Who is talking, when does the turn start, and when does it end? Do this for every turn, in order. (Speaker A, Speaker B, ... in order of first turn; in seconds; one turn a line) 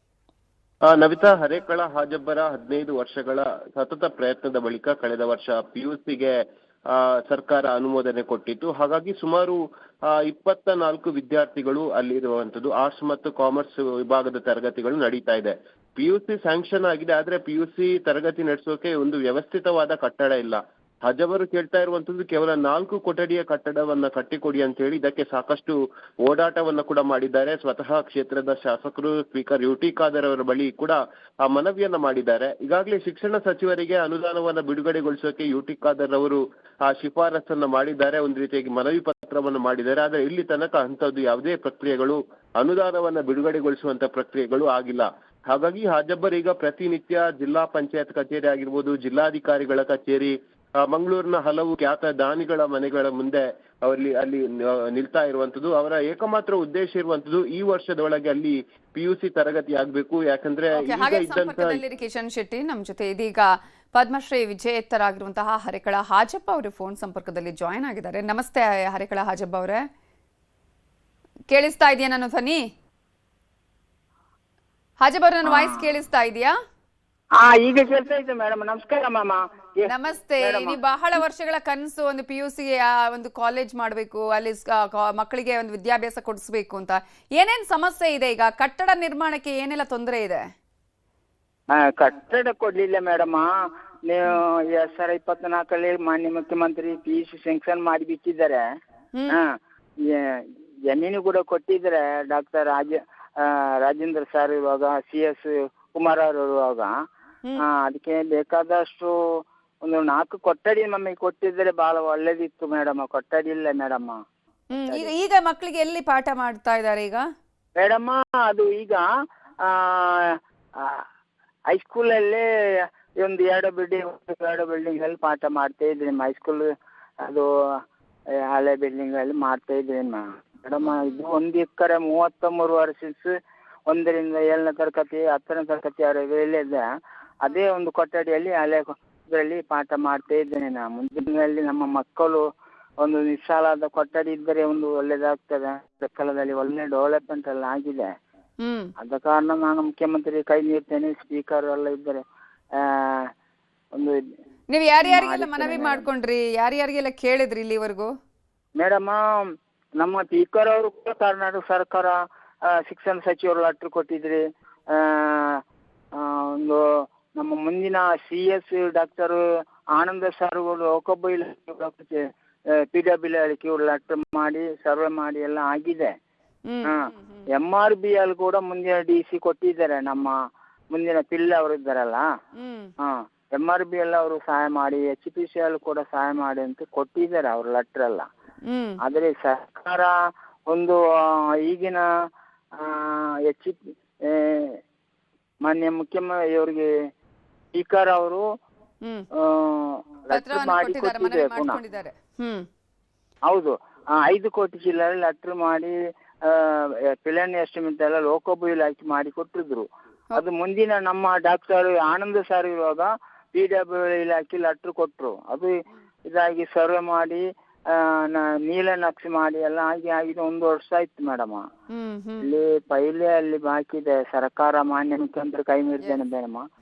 Speaker A: 0.9-61.8
Speaker B: 60.8-69.8
Speaker B: 71.5-72.6
Speaker B: 75.0-76.5
Speaker C: 75.5-75.8
Speaker C: 77.4-80.8
Speaker B: 79.9-90.4
Speaker C: 91.8-93.5
Speaker C: 94.1-98.6
Speaker C: 100.1-106.9
Speaker C: 107.6-109.2
Speaker C: 109.8-114.2
Speaker B: 114.7-117.2
Speaker C: 114.8-115.1
Speaker C: 117.8-119.0
Speaker C: 119.7-121.0
Speaker C: 121.7-122.5
Speaker C: 123.2-126.7
Speaker C: 128.5-133.3
Speaker B: 130.8-131.2
Speaker C: 133.9-136.8
Speaker C: 137.4-142.4
Speaker C: 143.0-148.1
Speaker B: 148.6-148.9
Speaker C: 149.0-152.2
Speaker C: 152.8-153.3
Speaker B: 154.7-158.1
Speaker C: 155.0-156.1
Speaker C: 158.8-159.2
Speaker C: 160.0-162.2
Speaker C: 162.8-165.6
Speaker C: 166.2-166.8
Speaker C: 167.4-169.4
Speaker C: 169.9-172.3
Speaker C: 172.9-176.1
Speaker B: 176.7-177.4
Speaker C: 176.9-180.3
Speaker C: 180.9-182.3
Speaker B: 182.6-182.9
Speaker C: 183.0-188.3
Speaker B: 188.6-189.0
Speaker C: 189.0-190.1
Speaker C: 190.7-191.0
Speaker C: 191.7-192.0
Speaker C: 192.8-194.8
Speaker C: 195.6-196.9
Speaker C: 197.8-198.4
Speaker C: 199.4-201.8
Speaker B: 200.3-202.7
Speaker C: 203.5-205.9
Speaker C: 206.5-215.7
Speaker C: 216.3-221.7
Speaker B: 221.9-222.5
Speaker C: 222.4-226.6